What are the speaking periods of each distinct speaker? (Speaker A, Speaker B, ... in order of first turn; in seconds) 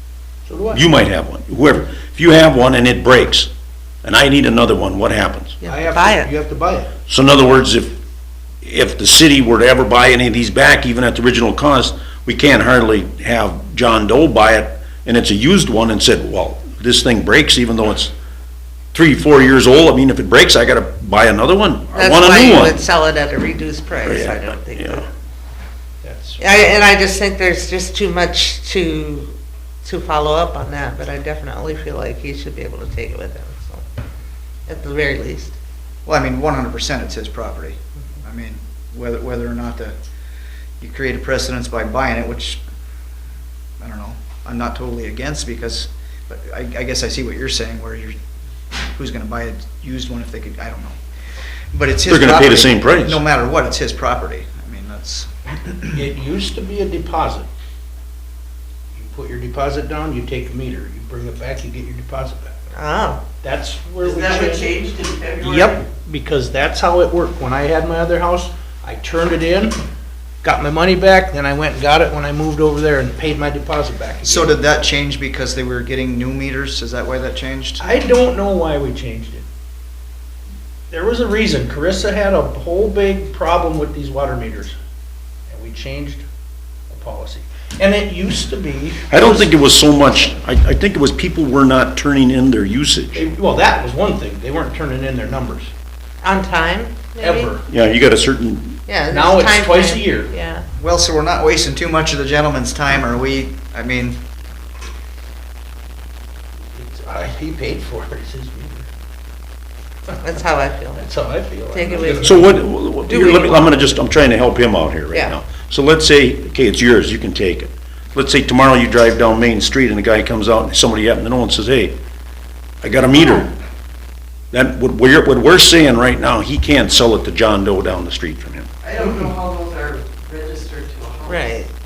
Speaker A: 0.5-0.8, 5.7-6.9, 26.0-26.4, 55.9-57.5, 58.9-62.5, 63.4-64.7, 65.5-69.8, 70.4-74.5, 77.8-79.5, 80.9-84.8, 85.5-86.2, 86.9-89.3, 93.1-95.7, 97.2-97.6, 99.1-100.3, 106.7-108.8, 111.0-112.6
Speaker B: 0.7-3.5, 4.0-5.6, 7.1-8.0, 8.6-18.1, 18.9-22.8, 24.0-25.1, 52.1-53.2, 89.1-93.2, 97.7-98.8, 112.2-122.0, 122.8-123.5, 124.5-128.7
Speaker C: 5.6-6.3, 21.9-25.1, 26.4-33.8, 34.7-35.5, 62.7-63.2, 96.2-97.5, 98.9-100.6, 110.1-111.1, 111.7-114.0, 131.3-131.7
Speaker D: 36.0-39.9, 40.8-42.6, 43.8-48.1, 48.8-51.0, 51.7-55.9, 74.2-77.8, 100.8-104.2
Speaker E: 64.0-65.9, 128.8-131.7